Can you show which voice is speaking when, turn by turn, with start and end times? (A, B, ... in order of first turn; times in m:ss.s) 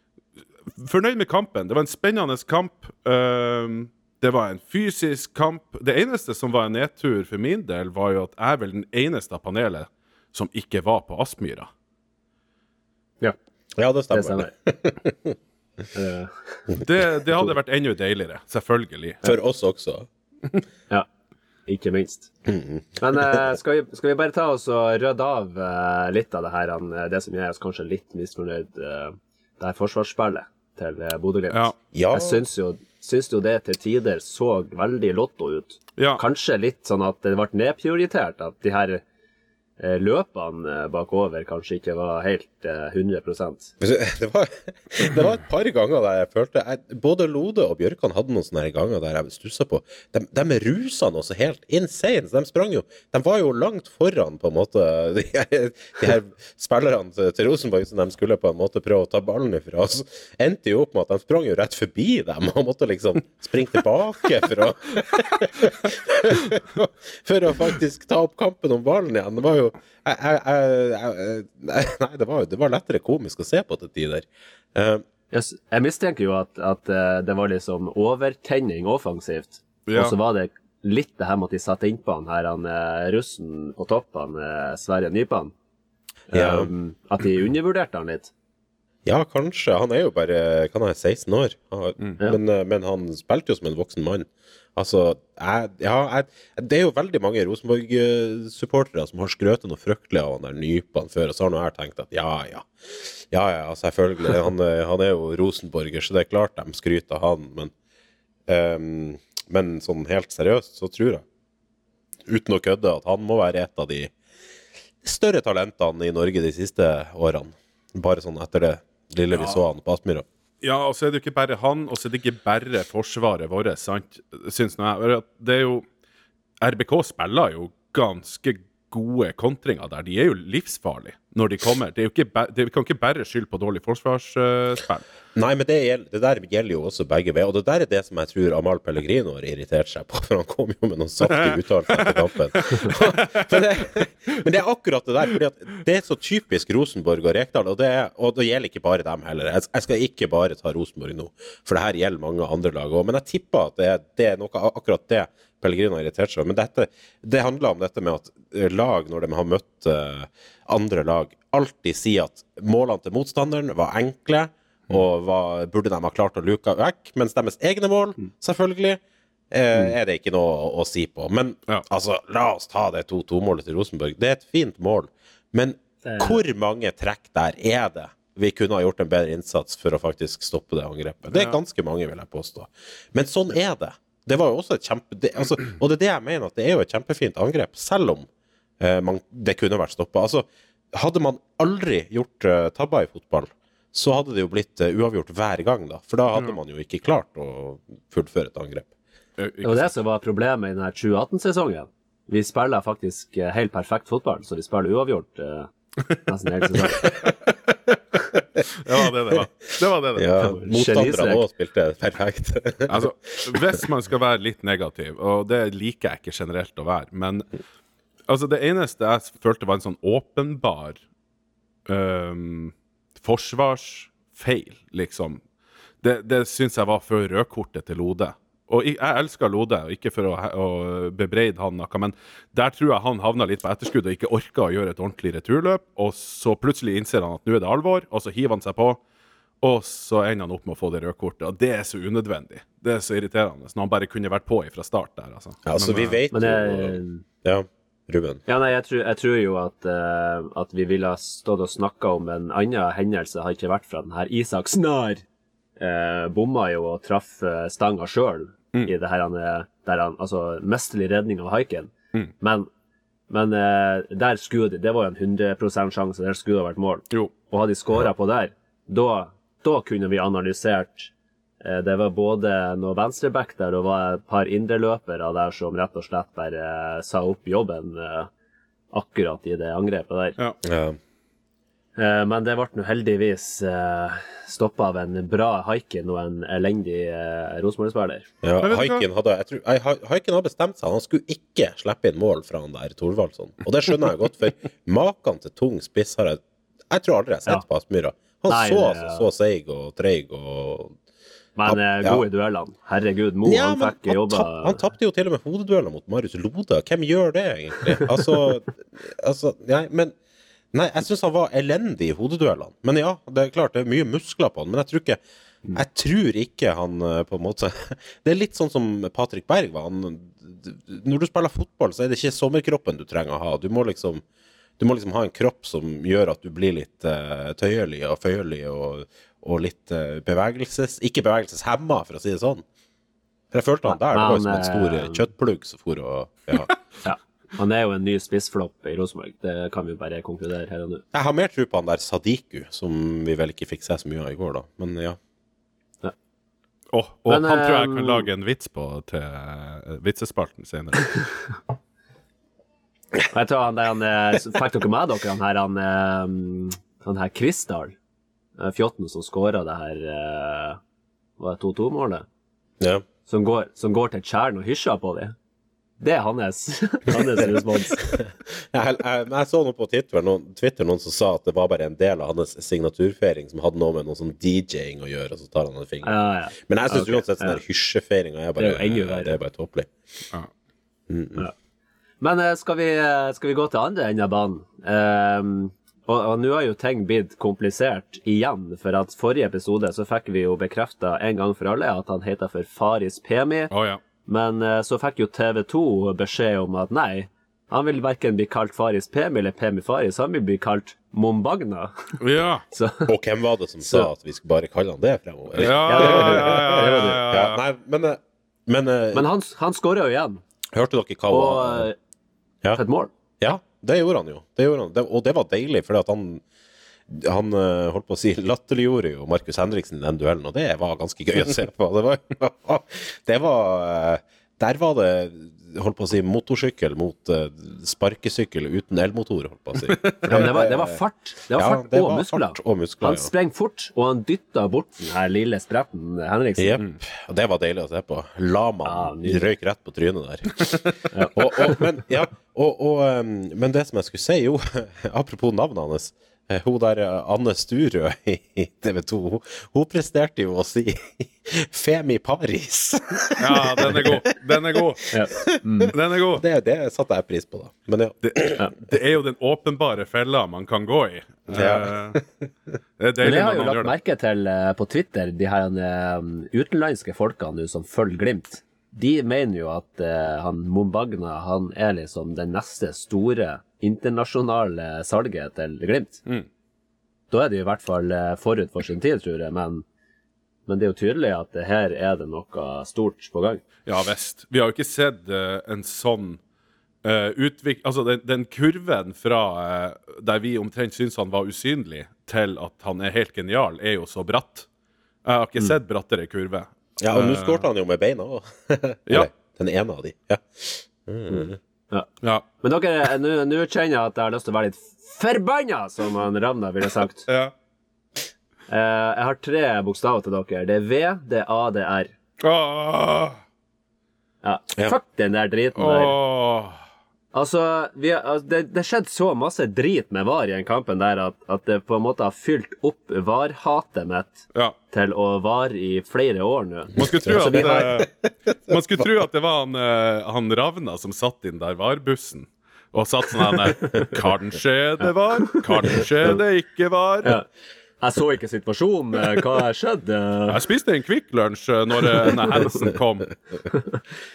0:00.7-0:11.7 A
0:13.8-0:15.4 B
0:14.1-0:14.5 C
0:15.9-0:16.6 C
0:16.8-0:19.3 A
0:19.2-0:20.1 B
0:21.7-0:22.3 C
0:22.5-0:23.4 B
0:23.0-0:39.0 C
0:31.9-0:32.4 B
0:39.8-0:43.7 C
0:43.8-1:15.0 B
1:15.3-1:25.5 C
1:19.9-1:20.2 A
1:26.3-1:28.3 C
1:26.3-1:26.7 B
1:29.0-1:47.7 B
1:48.5-1:51.2 B
1:52.3-1:54.1 B
1:55.0-2:00.3 B
1:59.3-1:59.6 A
2:00.6-2:05.9 A
2:06.6-2:15.0 A
2:15.4-3:08.3 B
2:21.3-2:23.5 A
2:56.0-2:56.4 C
3:08.8-3:18.9 B
3:19.4-3:19.9 A
3:19.6-3:25.7 C
3:26.3-3:27.1 C
3:28.8-3:30.6 A
3:30.2-3:33.7 B
3:30.6-3:31.4 C
3:32.9-3:37.5 A
3:38.3-3:41.0 A
3:41.9-3:45.4 A
3:46.0-3:59.0 A
3:59.6-4:06.2 A
4:05.7-4:08.4 B
4:06.3-4:07.2 C
4:08.5-4:15.2 C
4:15.8-4:22.7 C
4:23.3-4:31.1 C
4:31.6-4:38.3 C
4:38.9-4:40.4 C
4:40.6-4:41.0 B
4:42.0-4:48.3 C
4:48.4-5:01.0 B
4:48.6-4:49.1 A
4:58.5-4:59.3 C
5:01.6-5:04.8 C
5:01.7-5:02.3 B
5:03.5-5:10.2 B
5:10.7-5:15.2 B
5:15.8-5:24.2 B
5:24.8-5:32.6 B
5:33.5-5:36.7 B
5:33.9-5:35.2 C
5:37.0-5:41.0 C
5:41.1-5:45.2 B
5:46.9-5:51.3 A
5:47.3-5:48.3 C
5:53.3-5:58.0 C
5:58.6-6:00.8 C
6:01.4-6:02.3 C
6:02.8-6:03.1 B
6:03.3-6:05.4 C
6:06.0-6:08.1 C
6:08.0-6:19.9 B
6:16.0-6:17.6 C
6:18.6-6:19.4 C
6:21.1-6:21.4 B
6:22.2-6:33.7 C
6:33.7-6:34.0 A
6:34.3-6:42.2 C
6:42.2-6:42.6 A
6:42.7-6:43.1 C
6:43.1-6:49.3 B
6:45.6-6:47.2 C
6:45.6-6:47.6 A
6:49.1-6:50.4 C
6:50.7-6:51.9 B
6:51.3-6:52.0 C
6:52.8-6:53.1 C
6:53.4-6:56.4 B
6:57.1-7:11.0 B
7:10.2-7:16.8 C
7:11.5-7:13.3 B
7:16.6-7:34.2 B
7:18.8-7:19.5 C
7:33.4-7:35.1 A
7:34.7-7:38.6 B
7:35.1-7:35.9 C
7:35.9-7:36.4 A
7:38.2-7:42.2 A
7:41.5-7:42.2 B
7:43.0-7:43.9 A
7:43.2-7:56.2 C
7:57.3-7:59.8 C
8:00.7-8:03.6 C
8:03.9-8:06.4 A
8:07.0-8:14.7 A
8:15.2-8:17.7 A
8:17.0-8:21.6 B
8:22.6-8:27.3 C
8:27.3-8:27.5 A
8:28.7-8:32.1 C
8:32.4-8:33.4 A
8:34.4-8:36.2 C
8:35.8-8:36.8 A
8:37.3-8:47.9 C
8:47.0-8:57.4 A
8:47.0-8:48.1 B
8:58.0-9:00.6 C
9:00.5-9:03.3 A